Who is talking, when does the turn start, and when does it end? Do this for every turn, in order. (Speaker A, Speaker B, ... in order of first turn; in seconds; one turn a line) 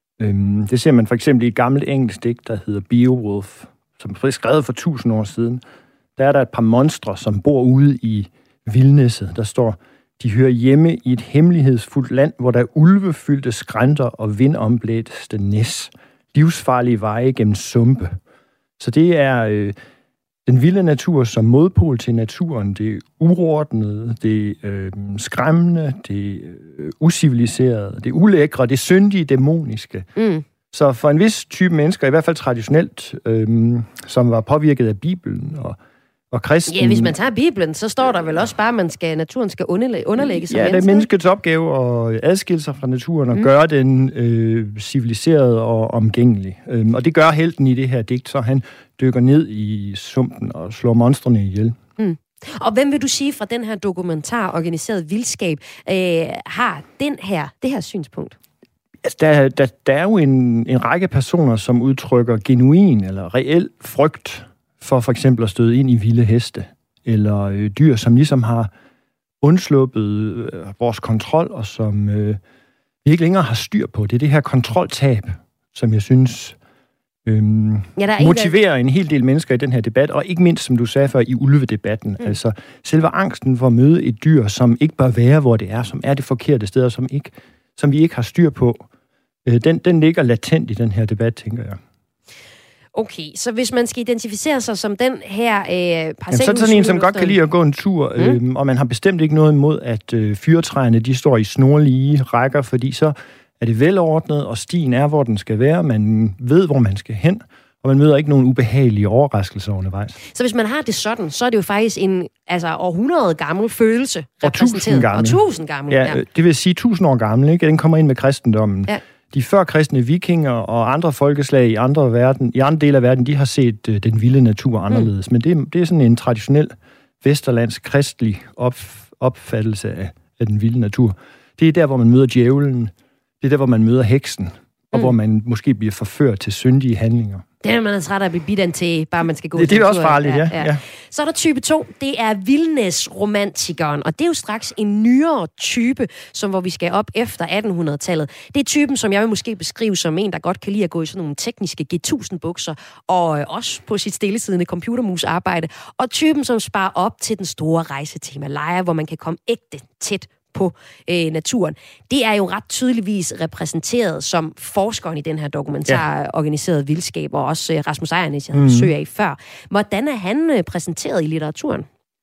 Speaker A: 0.2-5.6
Speaker A: 6.2-18.2
Speaker A: 18.8-19.8
Speaker A: 20.5-30.1
Speaker B: 30.2-30.4
Speaker A: 30.7-35.8
Speaker A: 36.3-37.2
Speaker B: 36.7-41.1
Speaker A: 40.2-51.8
Speaker B: 52.0-58.4
Speaker A: 59.0-68.7
Speaker A: 69.4-72.4
Speaker A: 73.0-76.6
Speaker A: 77.3-88.8
Speaker B: 78.0-78.5
Speaker A: 89.5-91.8
Speaker B: 93.0-97.4
Speaker A: 96.3-110.2
Speaker B: 110.3-116.2
Speaker A: 114.4-137.4
Speaker B: 137.6-171.9
Speaker A: 139.6-140.8
Speaker A: 168.5-168.9